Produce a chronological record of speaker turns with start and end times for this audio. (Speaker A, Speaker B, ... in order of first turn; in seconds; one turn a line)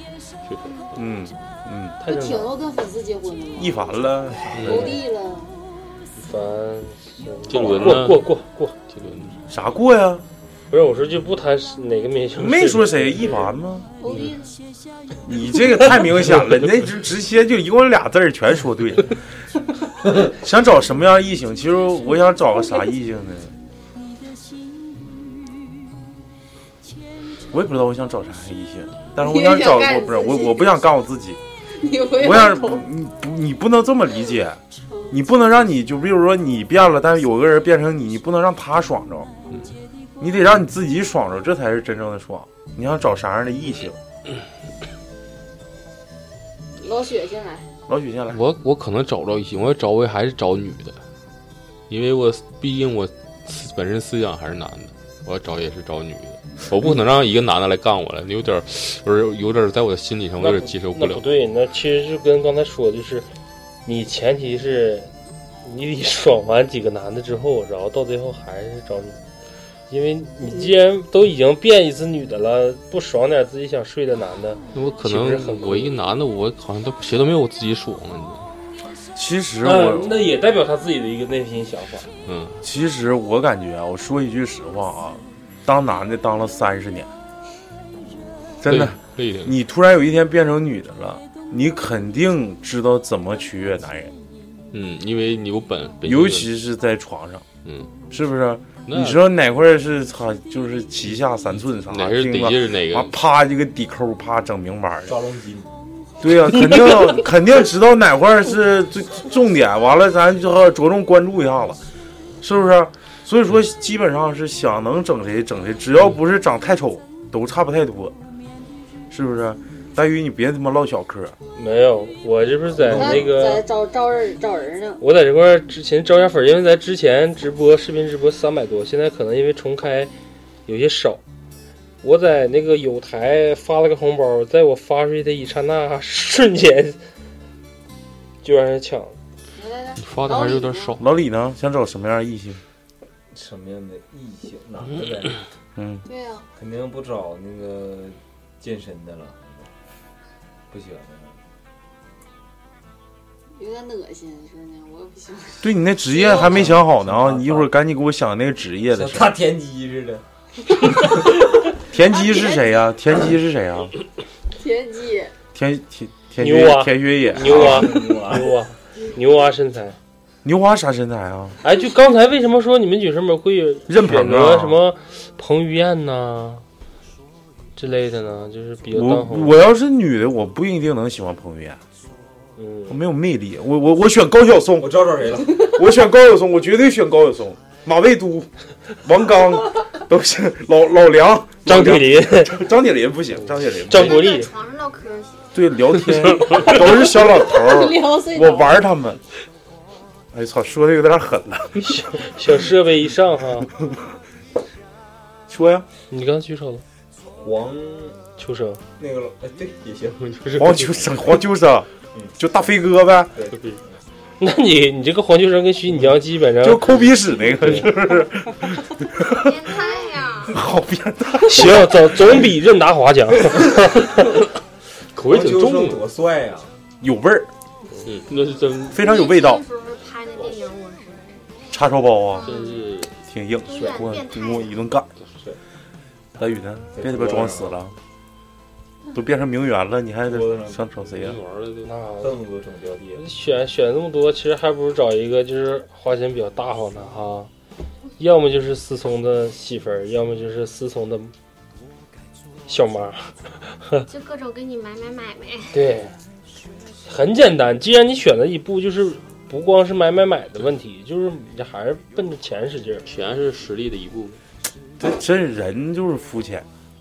Speaker A: 0.5-0.9
Speaker B: 0.9-2.0
Speaker C: 2.0-4.0
Speaker D: 2.0-2.5
Speaker B: 3.6-4.5
Speaker A: 4.5-4.9
Speaker C: 4.6-5.6
Speaker D: 6.2-8.8
Speaker A: 7.5-8.3
Speaker A: 8.9-9.4
Speaker B: 9.5-10.2
Speaker D: 10.7-13.4
Speaker B: 12.4-13.9
Speaker C: 14.0-14.5
Speaker B: 15.2-19.1
Speaker B: 20.2-23.6
Speaker B: 27.5-31.4
Speaker C: 29.2-30.7
Speaker C: 31.8-32.8
Speaker B: 32.2-39.3
Speaker B: 40.2-44.0
Speaker C: 46.8-47.7
Speaker B: 47.9-48.4
Speaker A: 48.3-51.0
Speaker A: 51.9-61.2
Speaker D: 60.4-63.3
Speaker D: 63.9-65.1
Speaker D: 65.6-69.2
Speaker D: 69.9-75.9
Speaker A: 74.7-78.5
Speaker B: 79.2-80.1
Speaker D: 79.6-82.1
Speaker A: 82.3-82.6
Speaker B: 82.6-87.1
Speaker B: 88.6-94.1
Speaker A: 88.7-89.5
Speaker A: 94.7-96.5
Speaker B: 96.0-97.5
Speaker A: 97.6-97.9
Speaker B: 98.1-105.2
Speaker A: 98.9-99.2
Speaker A: 101.9-103.2
Speaker E: 105.1-105.7
Speaker B: 106.2-111.8
Speaker B: 112.4-118.1
Speaker B: 119.1-121.4
Speaker D: 121.5-123.6
Speaker C: 122.9-125.0
Speaker D: 125.0-130.1
Speaker D: 130.7-131.2
Speaker D: 132.0-137.0
Speaker D: 138.4-139.2
Speaker C: 139.6-141.0
Speaker A: 140.0-141.0
Speaker B: 141.0-142.6
Speaker E: 143.3-145.4
Speaker B: 145.8-146.0
Speaker C: 146.1-146.5
Speaker E: 146.6-149.7
Speaker E: 150.7-151.4
Speaker C: 153.6-156.6
Speaker B: 155.6-159.4
Speaker E: 156.4-157.7
Speaker E: 158.9-160.2
Speaker B: 161.9-163.9
Speaker C: 162.1-162.6
Speaker C: 164.6-165.3
Speaker B: 165.6-168.1
Speaker D: 166.4-170.0
Speaker E: 167.3-168.6
Speaker B: 170.4-171.6
Speaker D: 171.6-176.6
Speaker B: 173.9-174.8
Speaker D: 177.8-179.6
Speaker B: 178.9-181.8
Speaker D: 182.6-183.0
Speaker B: 182.9-188.5
Speaker E: 184.8-185.7
Speaker B: 189.0-194.3
Speaker D: 191.7-192.5
Speaker F: 193.9-195.6
Speaker D: 193.9-194.5
Speaker B: 195.5-199.2
Speaker F: 196.6-197.8
Speaker C: 197.6-198.7
Speaker B: 200.3-201.8
Speaker D: 201.8-203.7
Speaker B: 205.5-205.9
Speaker D: 206.1-206.8
Speaker E: 207.4-208.2
Speaker D: 208.4-208.8
Speaker E: 209.0-210.4
Speaker A: 210.3-211.2
Speaker B: 210.6-213.3
Speaker E: 213.3-214.0
Speaker A: 213.5-213.8
Speaker D: 214.4-217.1
Speaker B: 216.6-219.8
Speaker F: 219.2-220.6
Speaker B: 220.5-222.4
Speaker D: 221.5-224.3
Speaker A: 225.1-226.0
Speaker E: 225.2-226.7
Speaker B: 227.0-227.5
Speaker A: 228.1-229.0
Speaker F: 228.9-231.7
Speaker B: 228.9-229.6
Speaker B: 231.7-232.5
Speaker F: 232.3-232.9
Speaker A: 232.4-233.1
Speaker B: 233.3-235.1
Speaker F: 233.7-234.8
Speaker B: 236.4-238.0
Speaker E: 236.9-237.7
Speaker B: 239.1-241.4
Speaker E: 240.3-240.8
Speaker A: 241.1-241.9
Speaker D: 241.8-242.3
Speaker E: 242.2-243.2
Speaker D: 243.2-247.5
Speaker D: 248.2-251.3
Speaker D: 252.7-254.1
Speaker F: 254.1-255.8
Speaker D: 255.7-256.1
Speaker D: 257.1-263.1
Speaker A: 263.1-264.4
Speaker B: 265.0-266.7